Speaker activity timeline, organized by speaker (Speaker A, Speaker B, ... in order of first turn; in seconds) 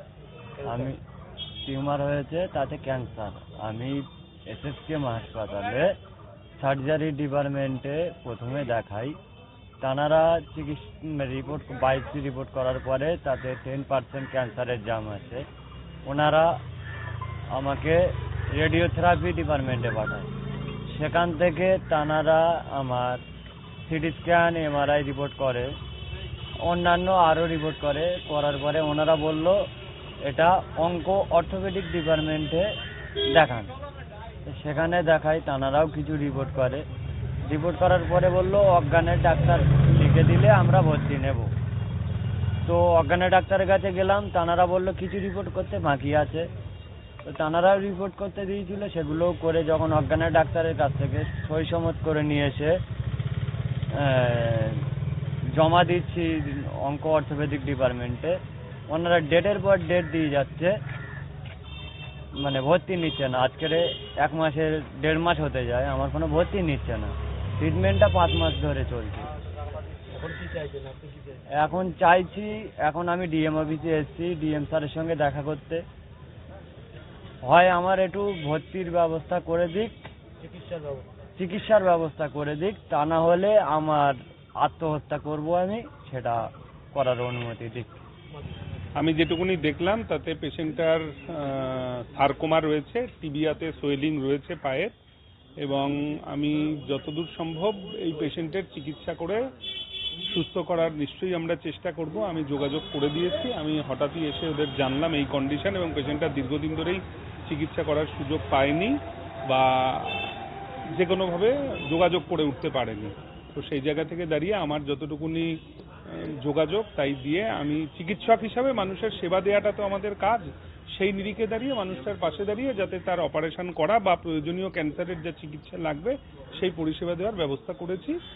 Speaker A: 0.6-0.9, 70.1-71.4, 80.4-81.1
Speaker B: 0.6-1.0, 1.6-5.9, 6.6-9.2, 9.8-15.4, 16.1-16.6, 17.5-20.3, 20.9-23.2, 23.9-25.7, 26.6-29.6, 30.2-32.7, 33.3-33.7, 34.5-36.8, 37.4-41.5, 42.6-46.5, 47.2-52.8, 53.9-54.8, 55.5-58.4, 58.9-60.8, 62.4-69.3, 71.5-75.8, 77.4-80.1, 81.4-88.0
Speaker C: 89.0-94.9, 95.6-99.4, 100.3-110.3, 111.0-128.2